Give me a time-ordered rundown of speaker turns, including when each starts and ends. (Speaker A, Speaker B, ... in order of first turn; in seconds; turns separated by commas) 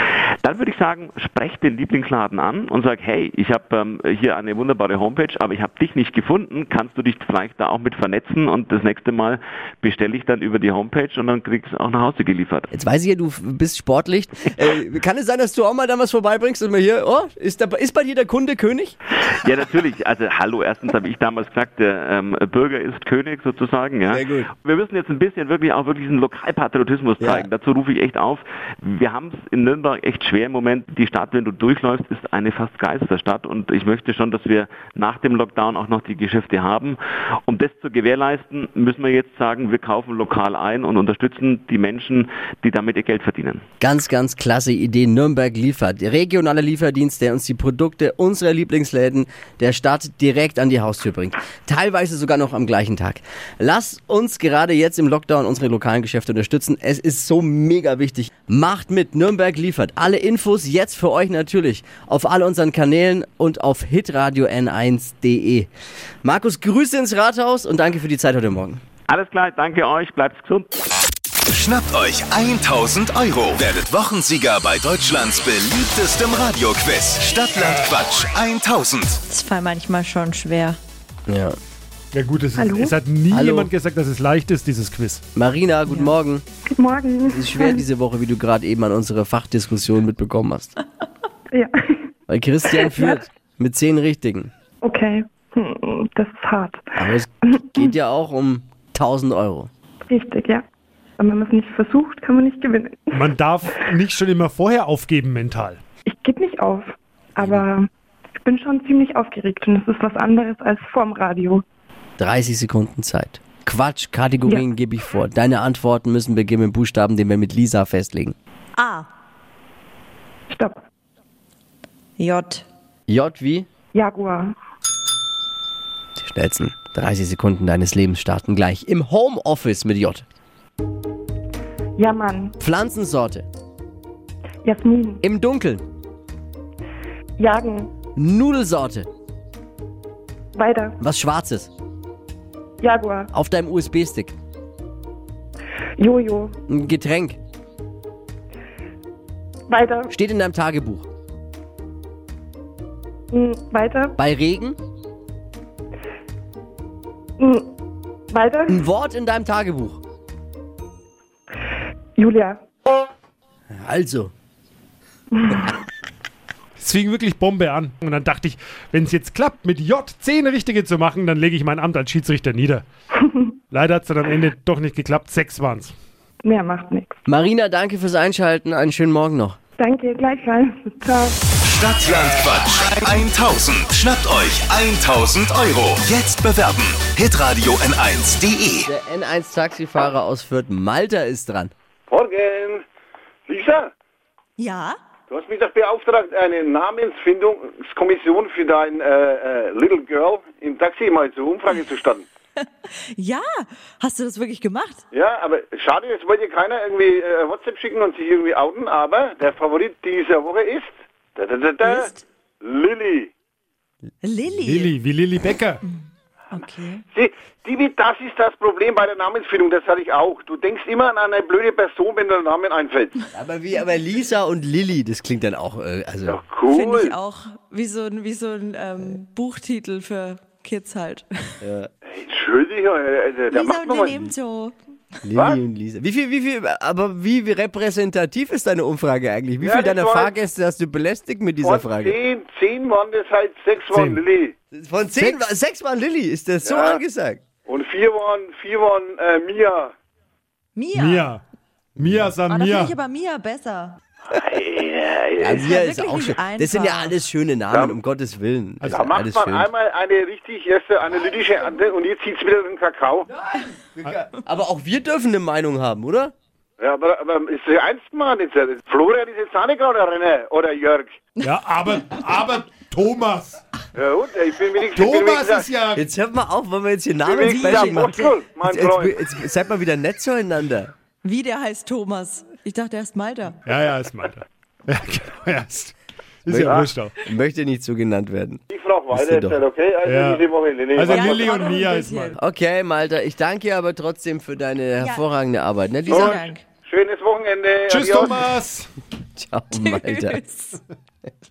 Speaker A: 0.4-12.7, Speaker B: 12.7-18.9, Speaker A: 19.2-43.6, Speaker B: 24.1-24.5, Speaker B: 27.2-27.5, Speaker B: 43.8-65.7, Speaker B: 66.2-68.8, Speaker A: 69.1-70.7, Speaker C: 71.5-79.2, Speaker D: 79.3-80.8, Speaker B: 81.3-81.5, Speaker E: 82.1-85.2, Speaker F: 82.5-83.0, Speaker B: 83.3-83.7, Speaker B: 85.3-86.4, Speaker F: 86.7-87.8, Speaker B: 87.3-90.7, Speaker F: 91.5-92.1, Speaker B: 92.3-94.5, Speaker F: 92.8-93.2, Speaker F: 94.8-96.8, Speaker B: 97.0-99.7, Speaker F: 97.4-97.8, Speaker F: 100.1-100.6, Speaker F: 101.2-103.3, Speaker E: 103.1-105.8, Speaker F: 106.1-107.9, Speaker F: 108.4-111.6, Speaker B: 112.2-118.3, Speaker D: 118.8-119.1, Speaker F: 120.5-120.8, Speaker D: 122.2-122.7, Speaker B: 123.1-123.7, Speaker F: 123.9-124.5, Speaker B: 126.2-130.2, Speaker F: 132.0-132.5, Speaker B: 132.6-133.4, Speaker F: 134.6-135.2, Speaker B: 135.2-135.9, Speaker F: 137.4-137.9, Speaker B: 138.2-139.1, Speaker F: 140.5-141.0, Speaker B: 141.0-141.7, Speaker F: 142.8-143.3, Speaker B: 143.3-144.3, Speaker F: 146.0-146.5, Speaker B: 146.7-147.4, Speaker F: 149.7-150.1, Speaker B: 150.1-151.1, Speaker F: 153.3-154.2, Speaker B: 154.2-154.8, Speaker F: 157.4-157.7, Speaker F: 158.3-158.8, Speaker B: 158.7-160.0, Speaker F: 162.2-162.6, Speaker B: 163.7-164.3, Speaker F: 165.3-165.7, Speaker E: 166.8-172.8, Speaker E: 173.7-175.9, Speaker F: 176.4-177.1, Speaker B: 177.2-179.6, Speaker F: 179.8-181.4, Speaker C: 181.6-188.9, Speaker B: 188.8-191.7, Speaker G: 192.1-192.8, Speaker G: 193.5-193.9, Speaker D: 194.6-195.0, Speaker G: 195.3-202.2, Speaker D: 203.1-205.0, Speaker G: 205.1-213.3, Speaker D: 211.8-212.2, Speaker D: 214.2-214.9, Speaker E: 214.6-215.8, Speaker D: 215.8-217.0, Speaker G: 217.1-223.1, Speaker B: 223.3-226.4, Speaker G: 226.3-227.1, Speaker D: 226.7-231.6, Speaker B: 231.6-231.9, Speaker G: 232.1-234.3, Speaker D: 233.5-234.8, Speaker B: 235.2-242.1, Speaker G: 239.6-240.4, Speaker G: 241.6-244.5, Speaker E: 243.9-244.2, Speaker B: 244.7-247.4, Speaker G: 246.6-247.0, Speaker G: 247.7-249.9, Speaker D: 250.8-251.3, Speaker E: 250.9-251.4, Speaker E: 252.0-252.9, Speaker D: 252.5-254.0, Speaker G: 254.3-255.7, Speaker B: 255.4-259.7, Speaker D: 255.5-257.1, Speaker G: 257.7-258.0, Speaker E: 258.8-259.1, Speaker G: 258.9-263.3, Speaker B: 264.0-266.3, Speaker G: 266.8-271.2, Speaker E: 271.4-273.6, Speaker G: 273.9-275.7, Speaker E: 274.9-276.0, Speaker B: 275.9-280.9, Speaker G: 277.2-279.2, Speaker D: 277.4-278.3, Speaker D: 281.2-283.6, Speaker E: 283.6-285.9, Speaker E: 286.4-287.1, Speaker G: 286.5-286.9, Speaker B: 287.2-288.6, Speaker G: 288.7-291.5, Speaker B: 289.1-289.6, Speaker E: 290.0-292.4, Speaker D: 291.1-292.4, Speaker B: 292.4-296.4, Speaker D: 296.1-296.6, Speaker E: 296.1-296.4, Speaker G: 296.9-298.5, Speaker E: 297.9-298.9, Speaker B: 299.4-300.4, Speaker D: 299.7-300.8